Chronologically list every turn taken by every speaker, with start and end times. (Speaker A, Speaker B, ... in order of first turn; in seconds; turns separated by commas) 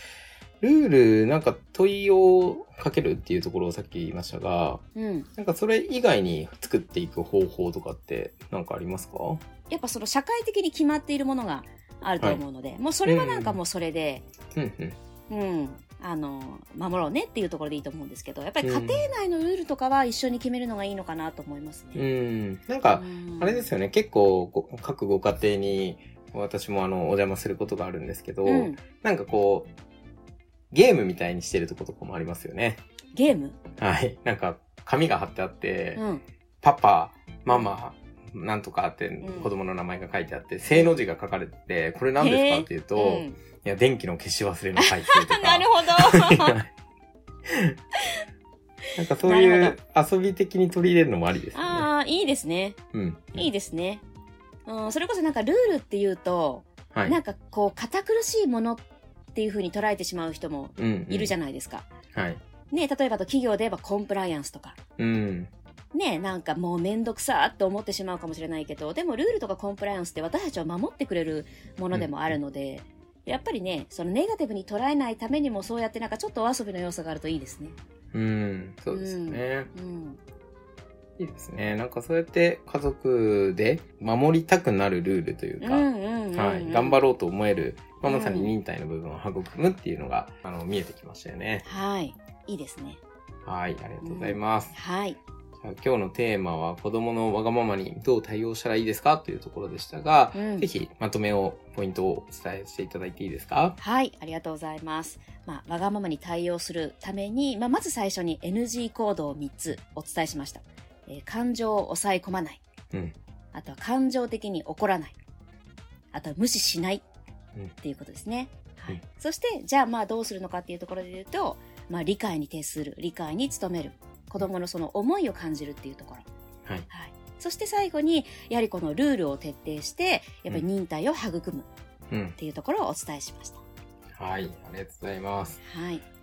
Speaker A: 0.6-4.8, Speaker B: 4.9-5.3, Speaker A: 5.3-9.4, Speaker B: 9.7-14.2, Speaker A: 13.1-13.6, Speaker A: 14.5-14.9, Speaker B: 15.3-22.0, Speaker A: 18.6-19.1, Speaker A: 21.9-29.7, Speaker B: 22.9-23.7, Speaker B: 28.4-28.8, Speaker A: 30.7-32.8, Speaker B: 33.1-33.6, Speaker A: 33.8-36.0, Speaker B: 36.0-36.2, Speaker A: 36.6-46.7, Speaker B: 39.2-39.5, Speaker B: 42.2-43.4, Speaker B: 44.8-46.6, Speaker A: 47.5-47.8, Speaker A: 48.9-51.9, Speaker B: 49.2-49.7, Speaker B: 51.5-52.8, Speaker A: 52.9-53.5, Speaker B: 53.4-54.0, Speaker B: 54.6-61.9, Speaker A: 56.9-57.2, Speaker A: 60.8-61.3, Speaker A: 62.1-62.4, Speaker B: 62.7-64.8, Speaker A: 65.0-65.5, Speaker B: 65.9-77.8, Speaker A: 71.9-72.3, Speaker A: 78.1-79.7, Speaker B: 78.9-80.2, Speaker A: 81.2-91.6, Speaker B: 85.6-87.0, Speaker B: 88.0-88.5, Speaker B: 91.6-93.0, Speaker A: 93.4-94.7, Speaker B: 94.0-95.2, Speaker A: 95.6-103.8, Speaker B: 100.3-100.7, Speaker B: 103.8-112.6, Speaker B: 113.5-115.2, Speaker B: 116.1-117.0, Speaker B: 117.8-126.3, Speaker B: 126.9-131.7, Speaker A: 132.1-132.4, Speaker B: 132.4-133.6, Speaker A: 134.1-135.6, Speaker B: 135.6-136.0